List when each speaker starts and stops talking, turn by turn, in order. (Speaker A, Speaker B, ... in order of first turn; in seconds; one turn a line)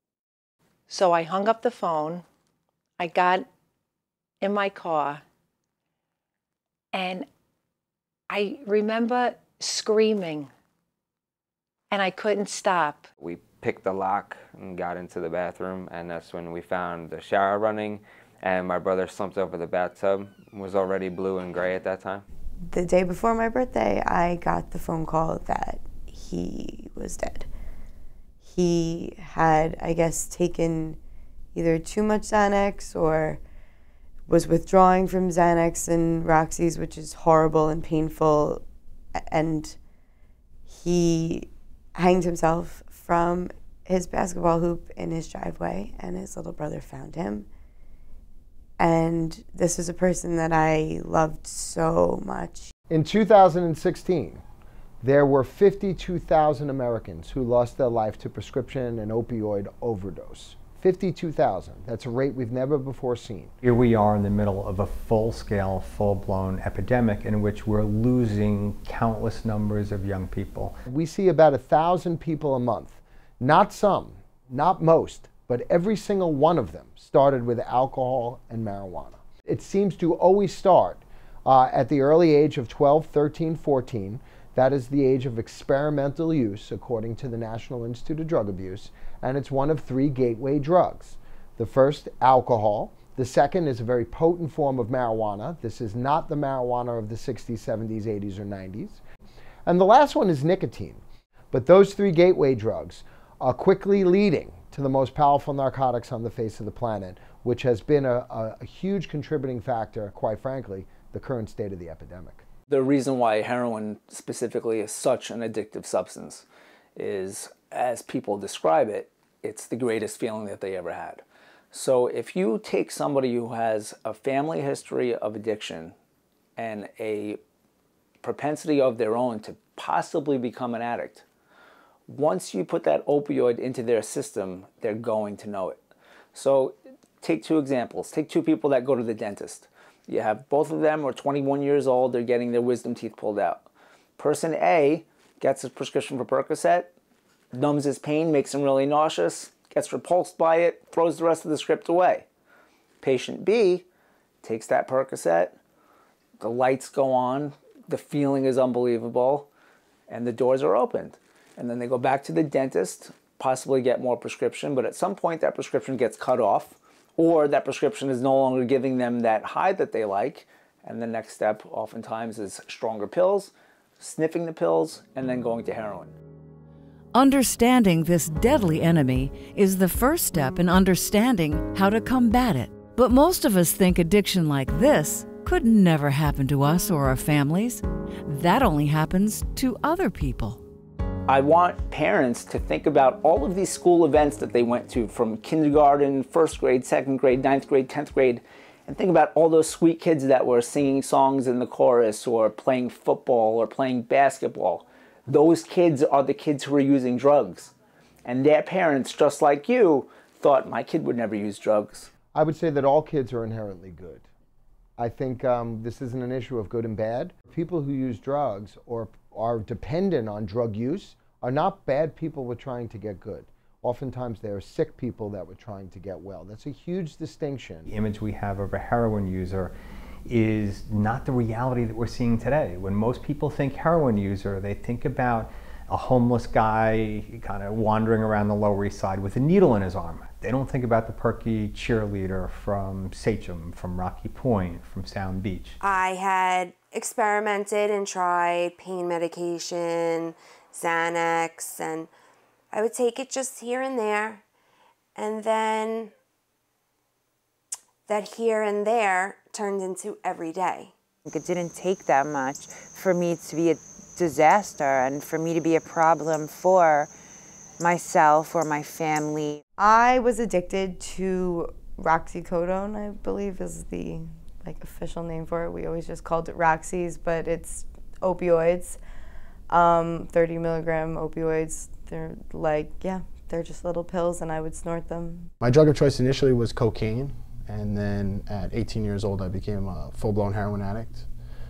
Speaker A: 0.9-2.2
Speaker A: 3.0-3.5
Speaker A: 4.4-5.2
Speaker A: 6.9-7.3
Speaker A: 8.3-10.5
Speaker A: 11.9-13.1
Speaker B: 13.2-22.2
Speaker C: 22.7-27.5
Speaker C: 28.4-31.0
Speaker C: 31.5-33.4
Speaker C: 34.3-38.6
Speaker C: 39.1-39.8
Speaker C: 40.7-47.5
Speaker C: 48.8-52.7
Speaker D: 52.9-54.4
Speaker D: 55.0-63.5
Speaker E: 63.6-70.8
Speaker D: 70.8-99.0
Speaker D: 99.7-101.0
Speaker D: 101.5-112.4
Speaker F: 112.7-116.4
Speaker F: 117.0-125.9
Speaker F: 126.6-127.4
Speaker F: 128.2-131.2
Speaker F: 132.1-135.8
Speaker F: 136.3-143.6
Speaker F: 144.2-146.9
Speaker F: 147.5-152.2
Speaker F: 153.0-153.8
Speaker F: 154.4-155.6
Speaker F: 156.4-159.5
Speaker F: 160.1-176.1
Speaker G: 177.1-190.6
Speaker F: 191.3-207.7
Speaker F: 208.2-212.1
Speaker D: 212.3-214.2
Speaker D: 215.0-227.9
Speaker E: 227.9-229.7
Speaker E: 230.3-245.8
Speaker H: 245.8-252.1
Speaker H: 252.7-254.4
Speaker H: 255.2-256.1
Speaker H: 258.1-260.9
Speaker I: 261.2-267.1
Speaker I: 267.8-269.6
Speaker C: 269.8-279.0
Speaker C: 279.7-285.5
Speaker J: 285.6-291.2